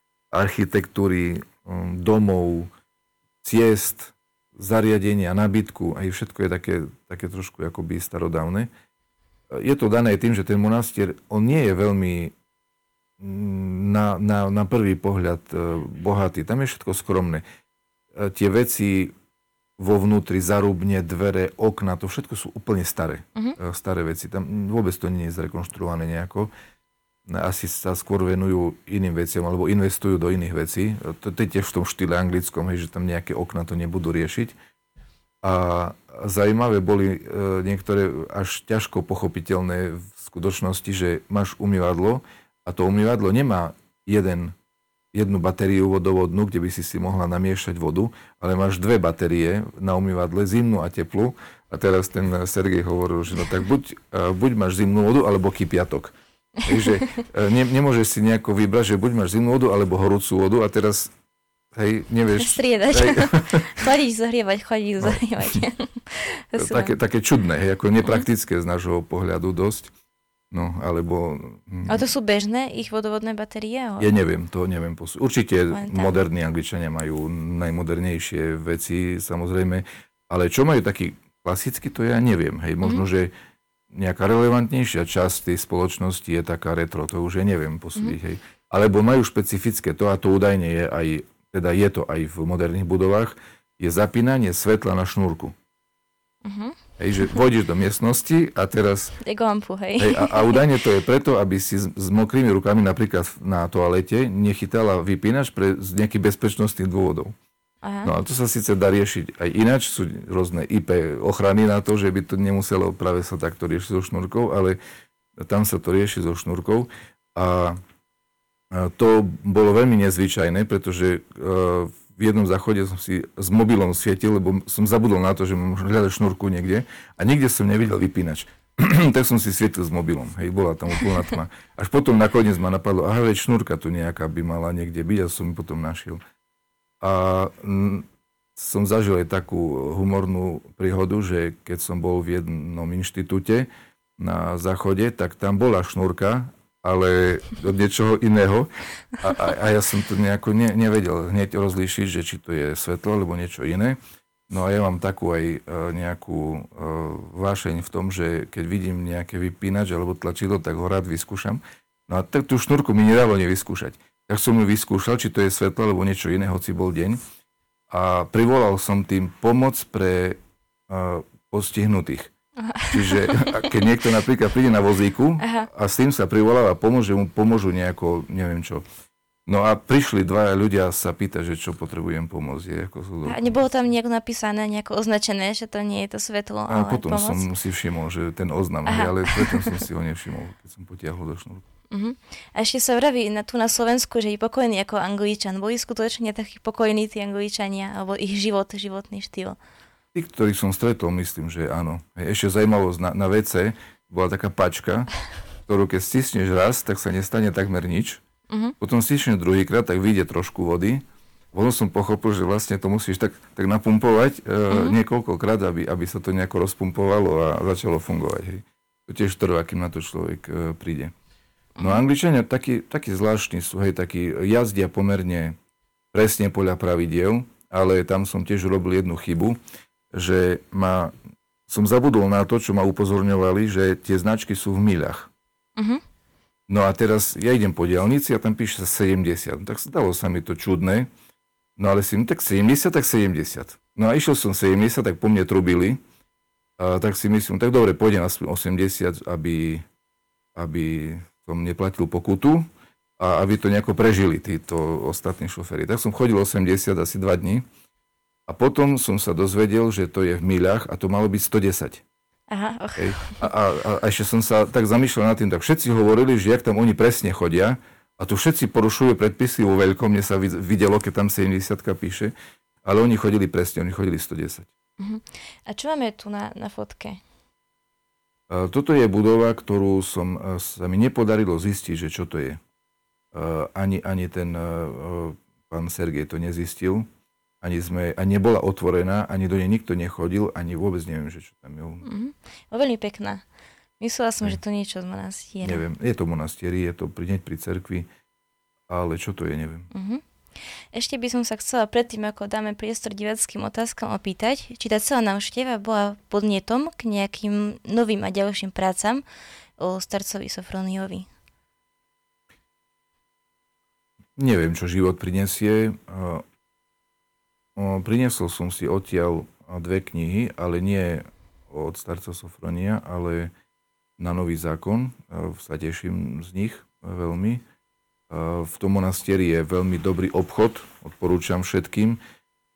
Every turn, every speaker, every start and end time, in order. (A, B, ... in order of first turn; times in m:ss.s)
0:00.3-0:02.7 A
0:03.4-0:08.7 A
0:09.5-0:12.3 A
0:13.2-0:17.4 A
0:18.1-0:19.1 A
0:19.8-0:26.5 A
0:27.3-0:34.6 A
0:35.4-0:44.6 A
0:45.1-1:01.1 A
0:56.8-0:57.2 B
1:01.7-1:03.7 A
1:02.4-1:07.0 B
1:05.0-1:05.6 A
1:06.6-1:09.9 A
1:10.5-1:12.1 A
1:11.9-1:14.1 B
1:14.0-1:23.3 A
1:15.7-1:16.2 B
1:23.9-1:35.6 A
1:36.4-1:36.8 B
1:37.0-1:39.2 A
1:39.2-1:40.7 B
1:40.0-1:47.4 A
1:47.8-1:48.1 B
1:48.0-1:54.8 A
1:55.4-1:57.8 A
1:58.7-2:16.2 A
2:17.0-2:34.0 A
2:34.5-2:47.2 A
2:47.9-2:52.3 A
2:52.6-2:53.7 B
2:52.9-2:58.8 A
2:55.4-2:55.7 B
2:59.5-3:03.4 A
3:03.2-3:07.5 B
3:06.7-3:11.6 A
3:08.9-3:09.8 B
3:11.9-3:19.6 B
3:20.1-3:25.1 A
3:25.7-3:28.2 A
3:28.5-3:28.8 B
3:28.8-3:41.1 A
3:34.7-3:35.0 B
3:41.8-3:42.0 B
3:41.8-3:45.6 A
3:46.1-3:49.6 A
3:50.1-3:51.1 A
3:51.7-3:55.3 A
3:55.8-3:56.0 B
3:56.7-4:01.1 A
4:01.8-4:06.0 A
4:06.8-4:09.8 A
4:10.6-4:12.7 A
4:13.2-4:17.7 A
4:18.5-4:22.0 A
4:22.5-4:23.5 B
4:23.0-4:34.7 A
4:35.0-4:37.2 B
4:38.5-4:42.6 A
4:43.3-4:47.1 A
4:47.6-4:52.0 A
4:52.0-4:53.4 B
4:54.0-4:55.8 B
4:55.6-4:58.1 A
4:58.9-4:59.9 A
4:59.9-5:00.2 B
5:00.9-5:09.2 B
5:09.8-5:11.3 B
5:14.4-5:16.4 A
5:17.8-5:23.5 A
5:24.2-5:27.6 A
5:28.3-5:32.2 A